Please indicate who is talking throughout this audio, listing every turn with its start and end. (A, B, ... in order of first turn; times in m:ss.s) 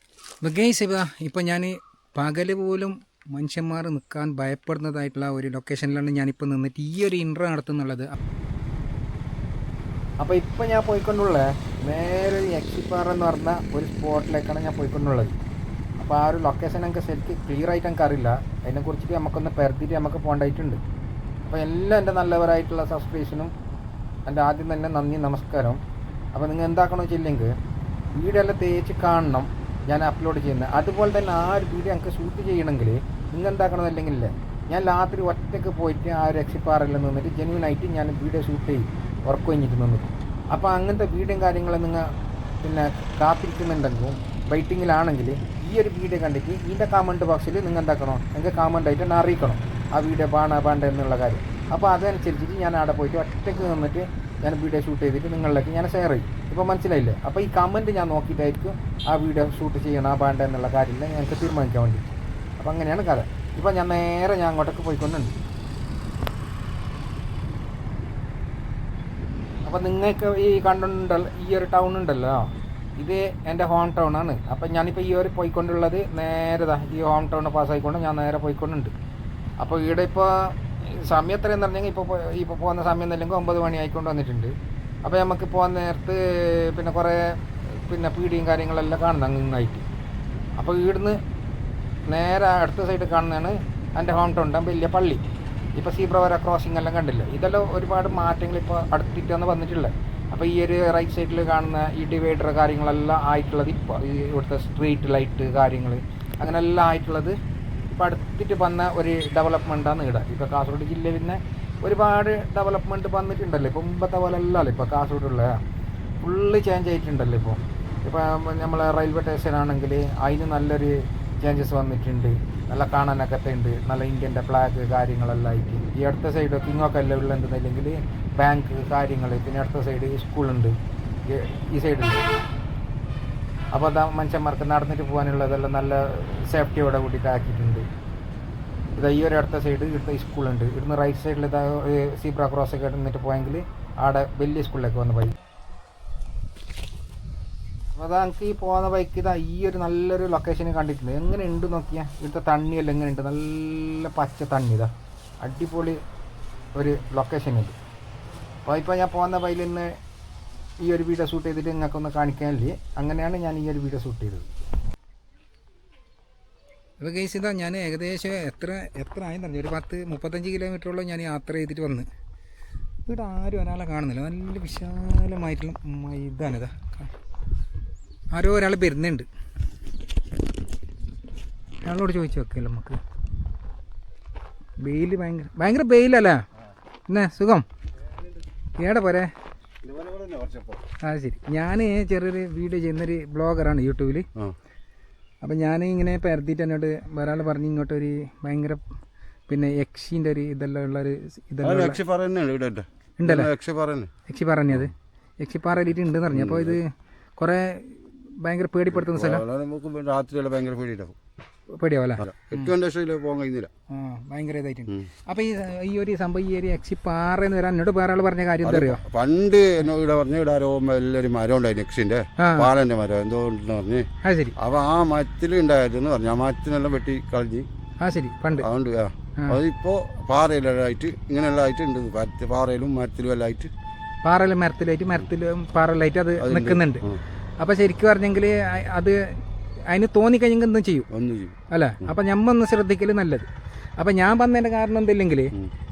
0:00.4-0:08.2 A
0:10.2-0:15.3 A
0:16.0-0:20.8 A
0:21.4-0:23.5 A
0:24.2-0:25.8 A
0:26.3-0:27.5 A
0:28.1-0:42.1 A
0:42.6-1:05.4 A
1:09.6-1:18.9 A
1:19.6-1:29.8 A
1:30.6-1:31.2 A
1:32.1-1:47.4 A
1:47.9-1:55.6 A
1:56.2-2:10.7 A
2:11.3-2:12.2 A
2:13.7-2:17.8 A
2:19.0-2:25.4 A
2:27.9-2:34.9 A
2:35.4-2:36.0 A
2:36.8-2:37.8 A
2:38.6-2:39.9 A
2:40.8-2:44.5 A
2:47.0-2:52.1 A
2:53.1-2:57.1 A
2:58.3-2:59.3 A
3:01.8-3:03.0 A
3:04.8-3:06.4 A
3:07.1-3:07.6 A
3:08.8-3:09.3 A
3:09.8-3:10.8 B
3:11.0-3:14.2 A
3:15.4-3:18.8 A
3:19.5-3:22.0 A
3:21.6-3:24.1 B
3:23.2-3:23.5 A
3:24.3-3:26.8 A
3:26.3-3:26.8 B
3:27.4-3:29.4 A
3:28.9-3:31.2 B
3:31.7-3:32.7 A
3:32.2-3:33.7 B
3:33.9-3:39.0 A
3:38.6-3:44.0 B
3:42.4-3:42.7 A
3:44.2-3:44.5 A
3:44.6-3:47.7 B
3:48.0-3:48.7 A
3:48.6-3:53.7 B
3:54.2-3:57.0 A
3:56.4-3:57.2 B
3:57.6-3:59.2 A
3:59.9-4:01.0 A
4:01.1-4:02.1 B
4:01.7-4:05.5 A